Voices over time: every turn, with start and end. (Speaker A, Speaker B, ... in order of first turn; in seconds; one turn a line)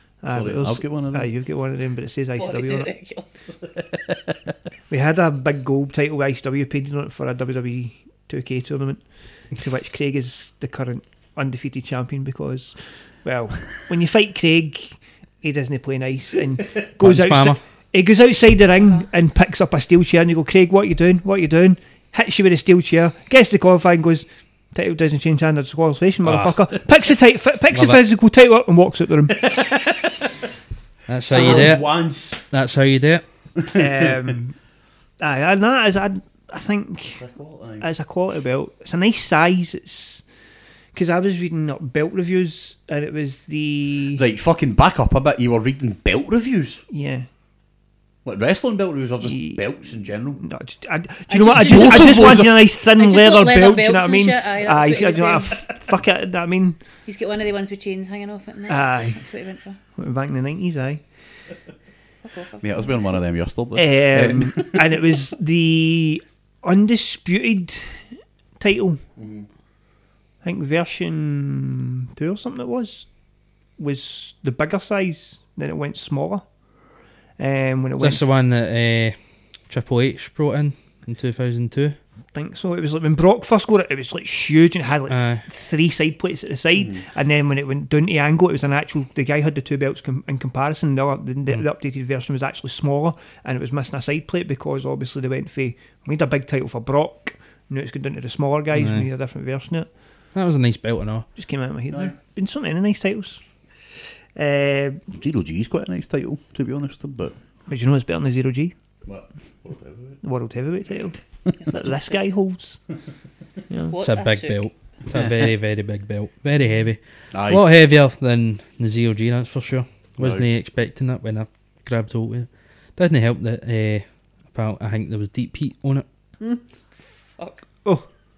Speaker A: 0.2-2.9
Speaker B: 0.2-1.3
Speaker C: 2.3-3.3
Speaker A: 4.9-30.0
Speaker D: 17.0-17.6
Speaker D: 26.2-26.6
Speaker D: 27.7-28.0
Speaker D: 31.1-33.2
Speaker A: 31.3-31.8
Speaker B: 31.3-32.4
Speaker B: 33.6-34.3
Speaker A: 33.7-34.6
Speaker A: 35.2-37.2
Speaker B: 37.1-37.8
Speaker A: 37.8-40.2
Speaker A: 40.9-44.2
Speaker B: 44.1-46.8
Speaker A: 46.9-47.3
Speaker B: 48.2-50.4
Speaker A: 49.2-49.6
Speaker A: 50.4-56.8
Speaker C: 51.3-55.7
Speaker B: 51.5-52.7
Speaker C: 57.0-59.8
Speaker A: 58.7-59.2
Speaker A: 59.9-61.0
Speaker C: 62.2-63.0
Speaker B: 62.6-65.0
Speaker A: 63.7-69.0
Speaker B: 69.2-69.5
Speaker A: 70.4-73.2
Speaker A: 73.8-76.6
Speaker A: 77.4-78.2
Speaker D: 78.0-82.0
Speaker A: 82.3-99.9
Speaker D: 85.1-85.4
Speaker B: 86.8-87.0
Speaker D: 98.7-99.1
Speaker D: 100.3-101.3
Speaker A: 101.3-103.4
Speaker A: 104.3-105.0
Speaker B: 105.1-107.3
Speaker A: 107.7-108.7
Speaker B: 109.0-110.2
Speaker A: 110.2-112.8
Speaker C: 111.6-112.2
Speaker C: 113.9-114.7
Speaker D: 114.0-126.0
Speaker B: 117.3-117.6
Speaker B: 120.2-120.5
Speaker C: 127.4-127.6